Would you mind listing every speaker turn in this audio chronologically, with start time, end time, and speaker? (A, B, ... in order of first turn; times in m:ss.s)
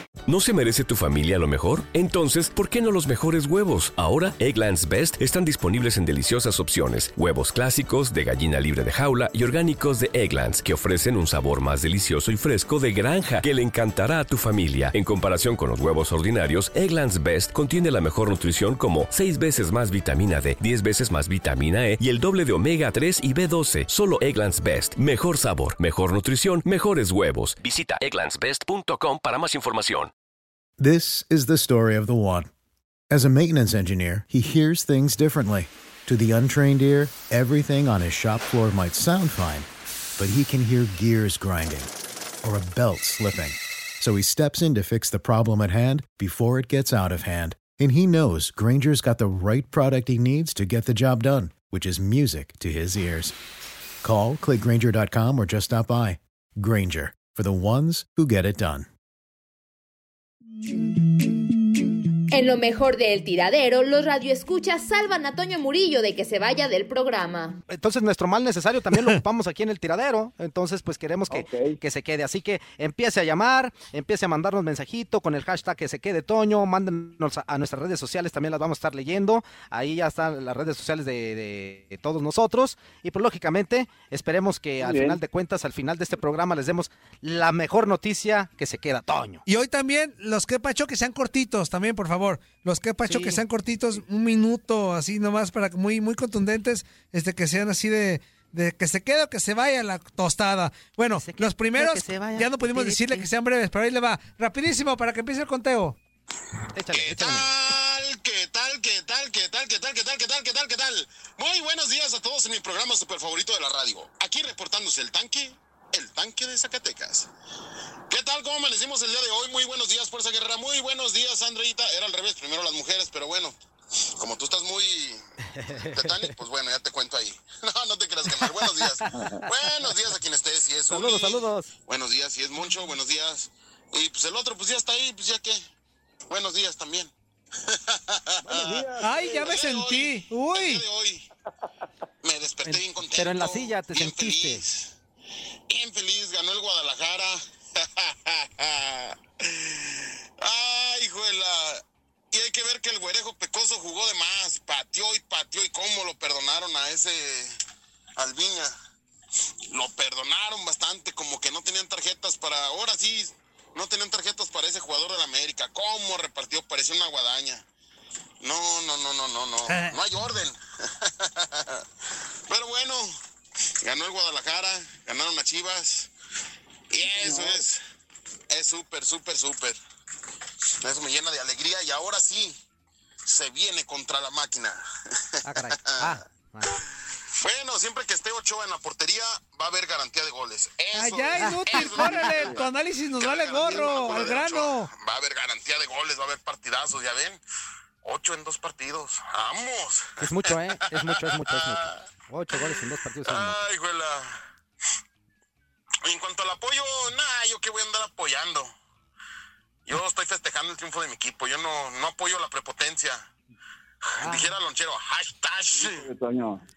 0:00.3-0:30.1 A
0:30.8-0:32.5 B
0:33.1-0:39.7 B
0:40.2-0:41.9 B
0:42.4-0:53.3 B
0:54.0-0:58.9 B
1:02.3-1:07.6 C
1:07.7-1:29.4 D
1:11.3-1:11.8 E
1:24.8-1:25.2 E
1:29.5-1:46.0 F
1:33.0-1:33.4 D
1:41.2-1:43.3 D
1:46.7-1:47.5 D
1:46.9-1:57.3 G
1:58.1-2:03.5 G
2:04.2-2:05.2 G
2:05.6-2:06.3 D
2:05.8-2:15.6 G
2:08.4-2:09.4 D
2:10.9-2:11.7 D
2:16.3-2:17.1 G
2:17.7-2:21.3 G
2:18.5-2:19.5 E
2:19.0-2:20.8 F
2:22.2-2:24.9 G
2:22.6-2:24.6 D
2:25.7-2:37.6 G
2:38.2-2:38.7 G
2:39.7-2:47.6 G
2:48.4-2:51.8 G
2:49.7-2:50.0 F
2:52.5-2:53.1 G
2:53.8-2:56.1 G
2:56.9-2:57.8 G
2:57.0-2:57.6 E
2:58.5-2:59.8 G
3:00.8-3:02.6 G
3:03.3-3:04.8 G
3:05.4-3:06.8 D
3:05.6-3:06.2 G
3:07.4-3:17.4 G
3:10.9-3:14.9 F
3:11.4-3:12.3 D
3:18.0-3:22.0 G
3:20.2-3:23.6 D
3:22.5-3:24.4 G
3:26.0-3:28.7 G
3:29.9-3:33.2 G
3:34.2-3:36.1 G
3:34.2-3:34.6 D
3:35.8-3:36.6 E